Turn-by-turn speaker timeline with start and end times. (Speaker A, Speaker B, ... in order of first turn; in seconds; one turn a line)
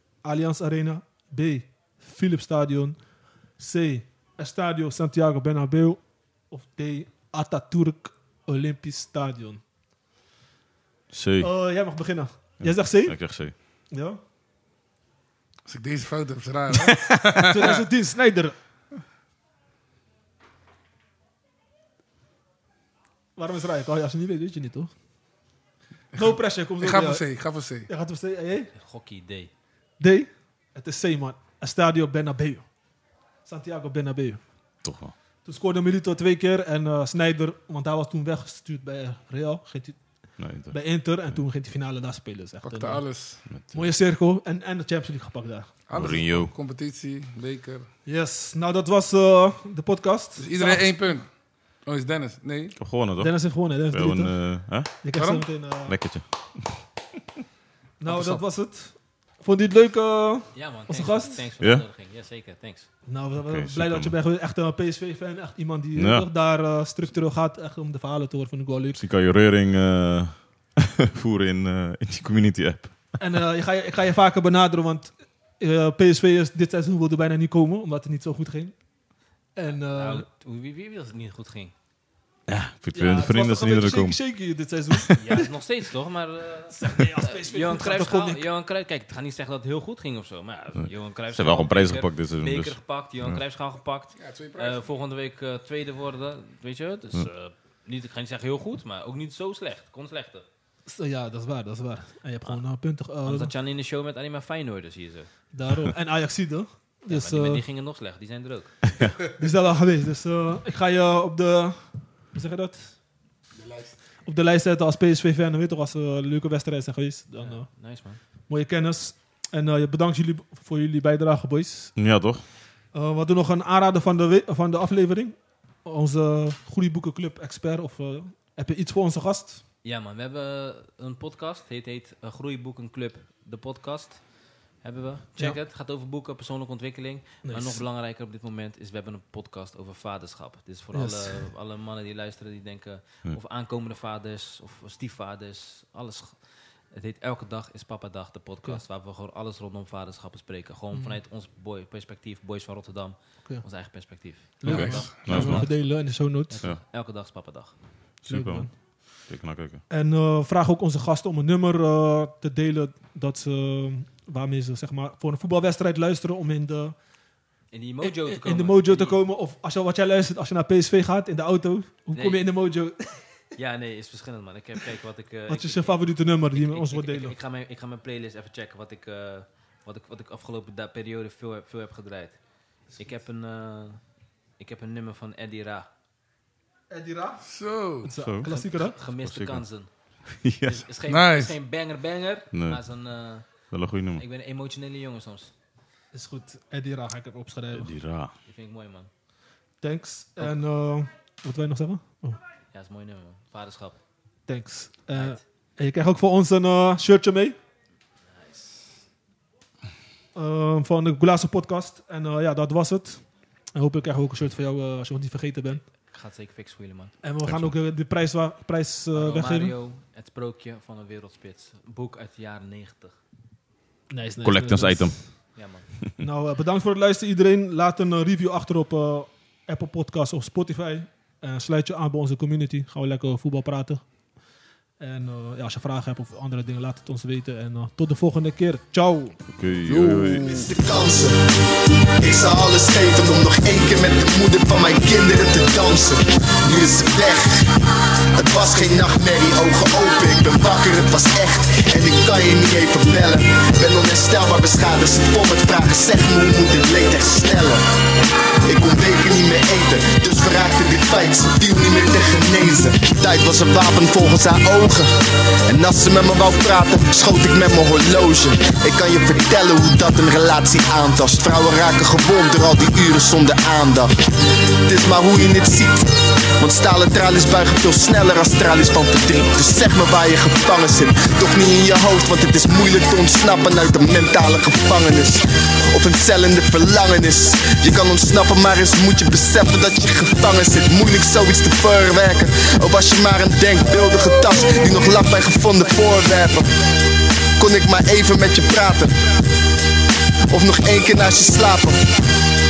Speaker A: 0.2-9.6
Speaker B: 11.1-11.5
Speaker A: 11.4-14.2
Speaker B: 12.6-13.5
Speaker C: 15.7-17.8
Speaker A: 17.5-18.6
Speaker A: 23.4-24.9
Speaker A: 26.1-27.3
Speaker C: 26.2-27.9
Speaker A: 27.9-28.7
Speaker D: 28.8-29.5
Speaker A: 30.0-32.7
Speaker A: 33.5-34.5
Speaker B: 34.8-35.1
Speaker A: 35.4-43.1
Speaker B: 40.4-40.8
Speaker C: 42.6-43.4
Speaker B: 43.5-43.9
Speaker A: 43.7-45.8
Speaker C: 45.9-47.9
Speaker B: 46.0-46.5
Speaker A: 48.1-51.2
Speaker C: 50.4-51.3
Speaker C: 51.9-52.8
Speaker B: 52.8-55.0
Speaker A: 53.2-56.0
Speaker C: 55.1-55.5
Speaker B: 55.9-56.2
Speaker A: 58.0-61.5
Speaker C: 58.1-58.4
Speaker D: 60.5-62.9
Speaker A: 63.1-69.0
Speaker B: 63.4-64.1
Speaker B: 66.0-66.3
Speaker B: 69.0-73.2
Speaker A: 73.2-78.8
Speaker A: 79.6-80.3
Speaker D: 79.8-81.7
Speaker B: 82.5-84.2
Speaker A: 82.9-85.5
Speaker D: 85.2-100.5
Speaker A: 86.7-88.5
Speaker B: 91.3-92.8
Speaker C: 94.2-94.8
Speaker A: 100.9-103.5
Speaker D: 103.2-105.3
Speaker A: 105.5-107.6
Speaker D: 107.1-108.9
Speaker A: 109.3-112.9
Speaker C: 113.6-113.9
Speaker A: 114.2-117.7
Speaker D: 117.4-118.2
Speaker A: 118.5-122.0
Speaker B: 122.0-122.4
Speaker A: 122.9-129.6
Speaker D: 129.8-157.8
Speaker A: 137.4-137.8
Speaker A: 140.9-141.4
Speaker A: 154.6-156.6
Speaker C: 154.7-155.1
Speaker B: 154.7-155.7
Speaker B: 158.2-159.8
Speaker A: 158.3-158.7
Speaker A: 159.9-166.9
Speaker D: 167.7-169.2
Speaker A: 168.0-173.1
Speaker D: 172.1-172.4
Speaker D: 173.6-182.4
Speaker A: 175.5-177.3
Speaker D: 182.9-184.0
Speaker D: 184.6-185.9
Speaker A: 186.9-187.5
Speaker C: 187.4-188.1
Speaker A: 188.0-188.9
Speaker B: 188.2-189.7
Speaker D: 188.5-189.9
Speaker B: 190.3-190.8
Speaker D: 190.6-193.6
Speaker C: 191.1-191.5
Speaker B: 192.5-192.8
Speaker B: 193.7-194.2
Speaker D: 194.1-195.5
Speaker A: 196.1-197.9
Speaker B: 197.7-198.3
Speaker D: 198.4-199.1
Speaker A: 199.8-202.4
Speaker D: 202.7-204.0
Speaker A: 204.5-207.6
Speaker D: 205.1-205.4
Speaker D: 208.3-209.0
Speaker A: 210.3-215.8
Speaker D: 216.1-217.2
Speaker A: 217.2-219.7
Speaker B: 217.4-217.7
Speaker D: 219.1-223.2
Speaker A: 224.1-225.3
Speaker B: 224.4-225.3
Speaker D: 225.6-225.9
Speaker A: 226.2-234.1
Speaker A: 235.0-239.4
Speaker B: 239.5-240.4
Speaker C: 239.8-240.7
Speaker E: 240.4-241.4
Speaker E: 242.2-247.7
Speaker E: 248.4-257.8
Speaker E: 258.7-274.1
Speaker E: 274.8-296.9
Speaker E: 297.6-299.3
Speaker E: 300.5-302.1